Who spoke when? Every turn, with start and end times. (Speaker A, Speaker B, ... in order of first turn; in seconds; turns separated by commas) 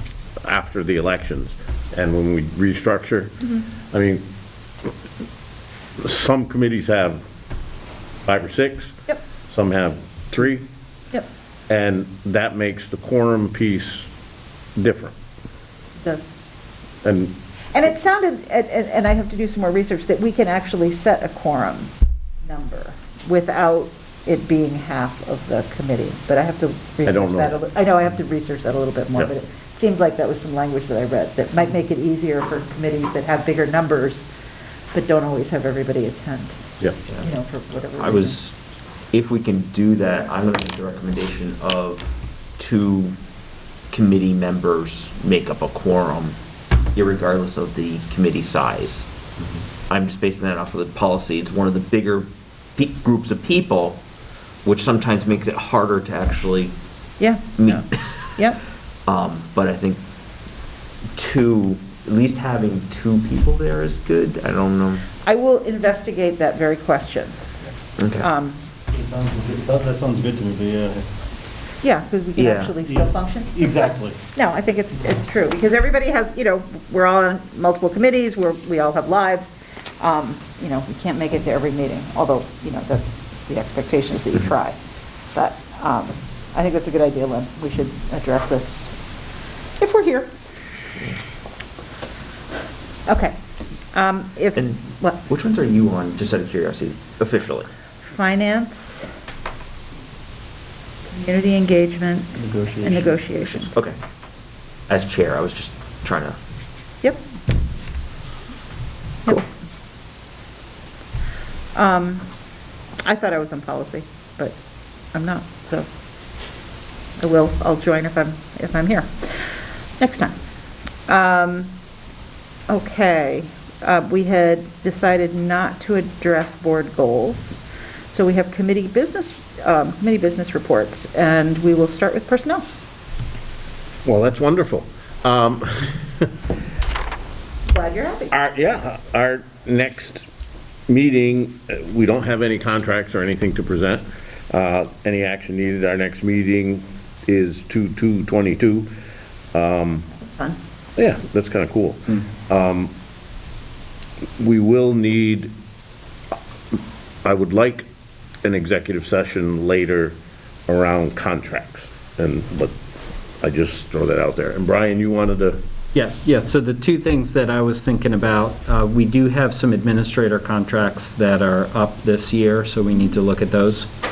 Speaker A: 0.4-3.4, Speaker A: 3.9-4.2, Speaker A: 6.0-7.2, Speaker A: 8.2-8.9, Speaker A: 9.5-10.7, Speaker A: 11.7-14.1, Speaker A: 14.8-15.1, Speaker B: 16.0-16.3, Speaker A: 17.0-17.3, Speaker B: 17.7-21.9, Speaker B: 22.4-34.2, Speaker A: 27.0-27.6, Speaker B: 34.9-36.6, Speaker B: 37.2-38.4, Speaker C: 38.0-38.5, Speaker C: 39.1-43.1, Speaker C: 43.9-46.4, Speaker C: 46.9-49.1, Speaker C: 49.9-54.0, Speaker C: 54.6-56.7, Speaker B: 57.2-58.6, Speaker C: 57.6-58.1, Speaker C: 59.0-60.0, Speaker C: 61.1-65.0, Speaker B: 65.2-67.4, Speaker C: 68.0-68.3, Speaker B: 68.2-68.6, Speaker D: 69.0-71.0, Speaker B: 71.8-84.8, Speaker C: 72.3-72.8, Speaker D: 73.6-74.1, Speaker B: 85.3-88.9, Speaker B: 89.8-90.3, Speaker B: 93.1-93.3, Speaker B: 93.9-95.2, Speaker C: 94.5-97.7, Speaker B: 98.0-99.1, Speaker B: 101.1-103.8, Speaker C: 103.6-104.0, Speaker C: 104.9-106.4, Speaker B: 111.7-112.2, Speaker B: 113.0-114.5, Speaker B: 115.1-115.9, Speaker B: 117.2-120.3, Speaker B: 121.1-121.7, Speaker B: 122.7-127.6, Speaker B: 128.1-132.6, Speaker A: 134.0-136.3, Speaker B: 137.7-138.3, Speaker A: 138.3-140.3, Speaker A: 140.9-148.9, Speaker A: 149.5-150.1, Speaker B: 150.2-150.6, Speaker A: 151.0-152.9, Speaker A: 154.4-155.5, Speaker A: 157.2-157.9, Speaker A: 158.4-160.1, Speaker A: 160.7-162.7, Speaker A: 163.4-165.6, Speaker E: 165.9-173.9